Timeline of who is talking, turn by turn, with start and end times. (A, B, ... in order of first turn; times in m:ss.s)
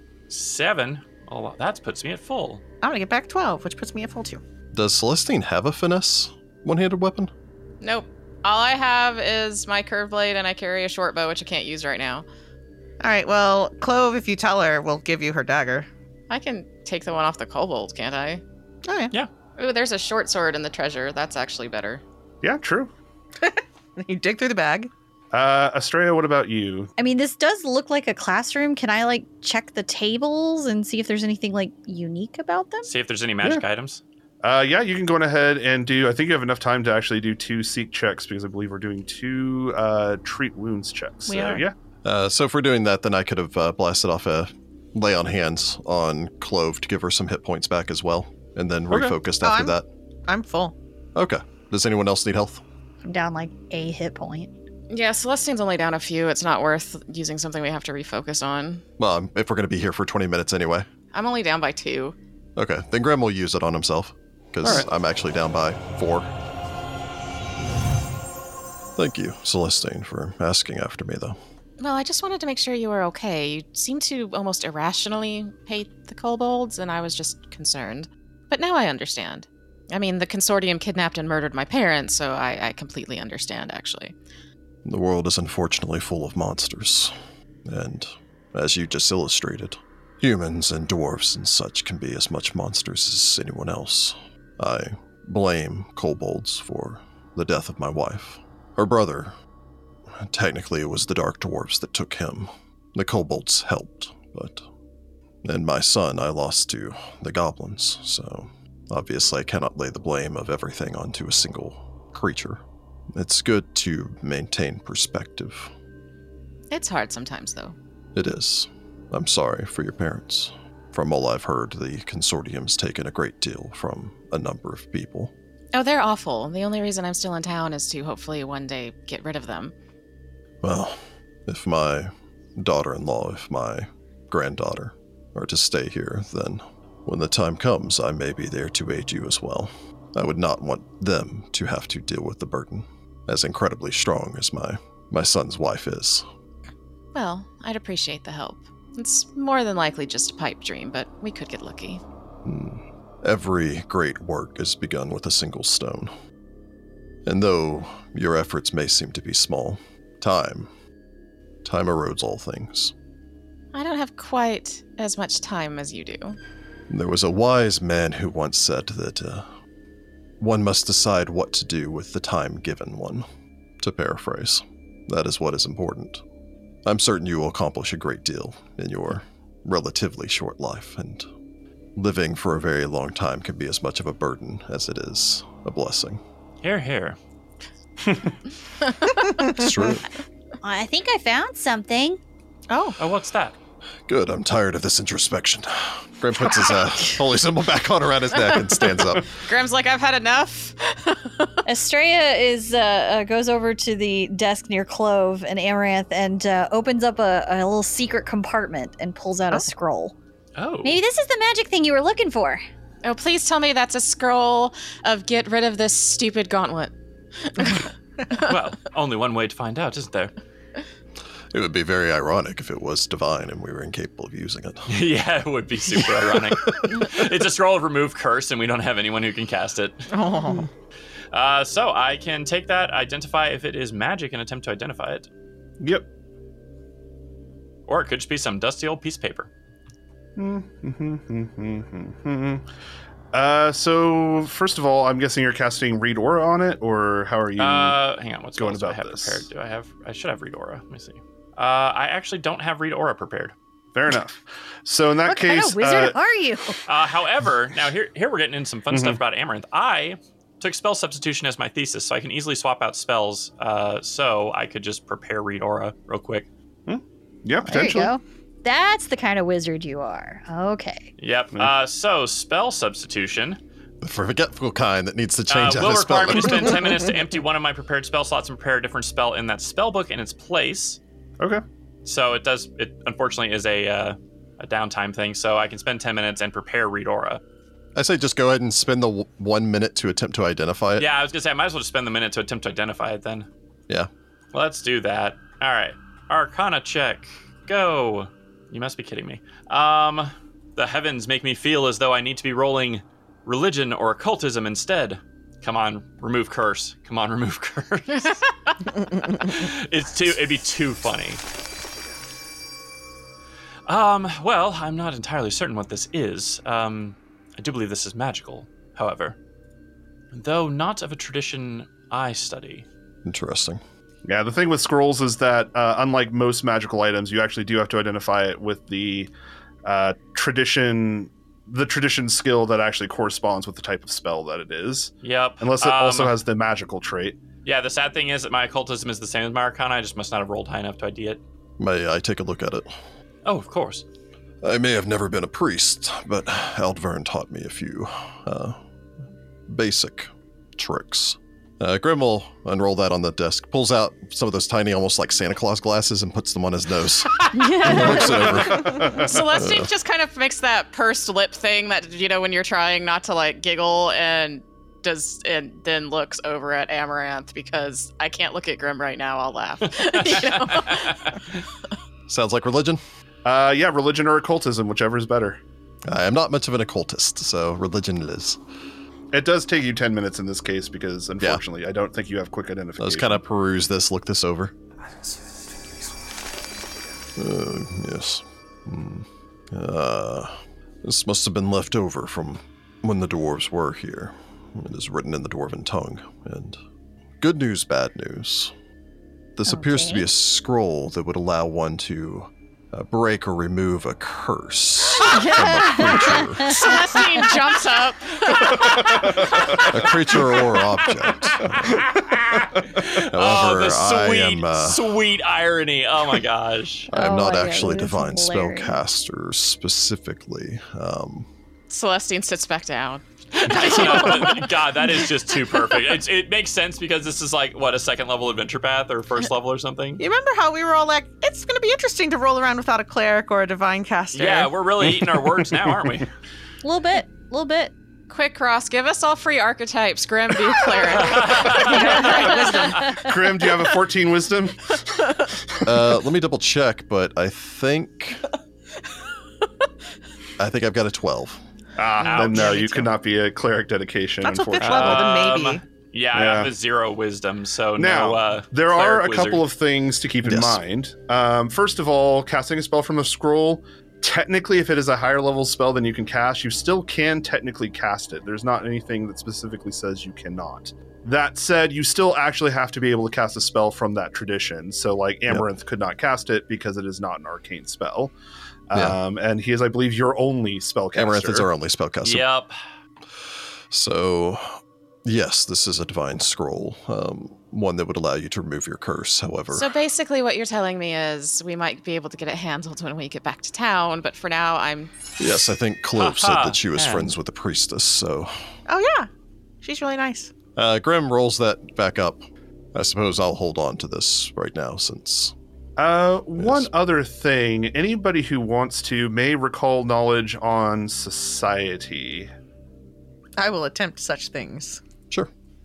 0:00.3-0:02.6 A
0:02.8-0:04.4 B
0:04.7-0:07.3 C
0:07.8-0:12.2 D
0:13.0-0:15.9 B
0:16.3-0:18.4 D
0:18.9-0:19.1 B
0:19.6-0:22.0 D
0:22.4-0:22.9 E
0:23.4-0:24.9 B
0:25.3-0:26.9 E
0:27.0-0:32.9 F
0:32.9-0:34.0 A
0:34.4-0:41.7 E
0:41.3-0:41.7 B
0:42.0-0:49.9 C
0:49.4-0:49.8 B
0:50.3-0:50.8 B
0:51.2-0:52.6 C
0:53.0-0:54.5 F
0:54.9-0:58.8 D
0:59.0-1:00.9 C
1:01.1-1:02.2 D
1:02.6-1:06.3 C
1:09.0-1:11.4 C
1:11.8-1:24.2 D
1:24.8-1:27.1 C
1:27.6-1:39.4 C
1:40.1-1:44.7 C
1:45.4-1:52.6 C
1:53.1-1:55.7 C
1:56.7-1:57.8 D
1:58.2-2:05.3 C
2:05.7-2:09.7 D
2:10.6-2:26.2 C
2:27.1-2:32.0 D
2:32.4-2:36.1 C
2:37.2-2:40.7 C
2:41.6-2:42.9 C
2:43.7-2:46.4 D
2:46.9-2:49.5 C
2:50.4-2:53.3 C
2:53.8-2:56.2 C
2:56.8-3:01.3 C
3:02.0-3:06.2 C
3:06.6-3:07.2 A
3:08.1-3:08.3 E
3:09.1-3:09.7 B
3:09.4-3:10.0 C
3:10.6-3:12.2 F
3:12.7-3:13.0 B
3:13.0-3:13.6 A
3:14.1-3:19.3 C
3:19.3-3:21.5 D
3:21.6-3:30.2 F
3:30.6-3:31.0 A
3:30.8-3:32.6 F
3:33.0-3:37.8 D
3:38.5-3:40.3 A
3:41.5-3:44.9 C
3:44.9-3:50.1 A
3:46.5-3:47.0 C
3:50.1-3:50.7 B
3:51.3-3:55.3 A
3:55.8-3:56.1 E
3:57.9-3:59.5 A
4:00.4-4:02.6 E
4:03.3-4:08.0 E
4:07.6-4:13.5 A
4:08.6-4:09.4 E
4:14.0-4:16.2 E
4:15.3-4:16.8 F
4:16.9-4:26.5 A
4:18.9-4:19.2 E
4:26.9-4:28.1 E
4:27.7-4:31.1 F
4:31.2-4:33.6 A
4:34.0-4:36.9 C
4:35.5-4:41.0 A
4:42.0-4:47.4 A
4:48.0-4:51.1 C
4:51.0-4:53.5 A
4:54.5-5:08.5 A
5:09.2-5:11.4 A
5:13.9-5:19.4 A
5:20.3-5:22.8 A
5:23.2-5:23.8 C
5:24.2-5:29.3 E
5:29.8-5:37.4 E
5:35.2-5:36.4 A
5:37.6-5:41.4 A
5:41.8-5:42.9 C
5:43.4-5:44.0 A
5:44.6-5:48.8 C
5:49.7-5:59.9 C
5:57.5-5:58.5 F
5:59.2-6:11.4 D
6:10.0-6:11.4 A
6:12.3-6:13.0 C
6:13.4-6:15.6 E
6:16.1-6:18.6 C
6:19.3-6:23.4 E
6:23.0-6:24.7 C
6:27.4-6:36.8 C
6:37.4-6:38.7 C
6:39.6-6:47.0 C
6:39.7-6:40.3 F
6:45.3-6:46.8 F
6:46.6-6:49.9 D
6:48.8-6:49.8 E
6:49.8-6:52.0 C
6:51.2-6:57.1 A
6:52.0-6:52.8 E
6:53.1-6:55.2 C
6:57.1-7:01.5 C
6:57.1-6:59.0 F
7:01.9-7:04.8 D
7:03.6-7:10.2 A
7:10.2-7:14.8 B
7:14.3-7:16.3 A
7:15.2-7:15.6 E
7:16.8-7:17.9 F
7:18.3-7:23.0 D
7:21.1-7:22.4 A
7:21.8-7:23.2 B
7:21.9-7:23.2 F
7:23.2-7:25.0 E
7:25.8-7:28.4 C
7:30.6-7:31.6 C
7:32.0-7:35.4 E
7:32.2-7:33.1 A
7:32.4-7:32.8 B
7:34.4-7:35.8 B
7:34.8-7:39.6 A
7:36.3-7:36.7 E
7:38.0-7:58.3 E
7:40.4-7:40.8 C
7:58.9-8:01.7 E
8:01.1-8:02.5 C
8:02.2-8:02.8 A
8:03.9-8:09.9 C
8:09.7-8:15.1 D
8:15.4-8:18.5 C
8:16.2-8:17.3 A
8:18.9-8:19.3 B
8:19.8-8:20.5 B
8:20.8-8:25.5 C
8:26.0-8:32.5 E
8:26.6-8:26.9 C
8:33.6-8:35.0 B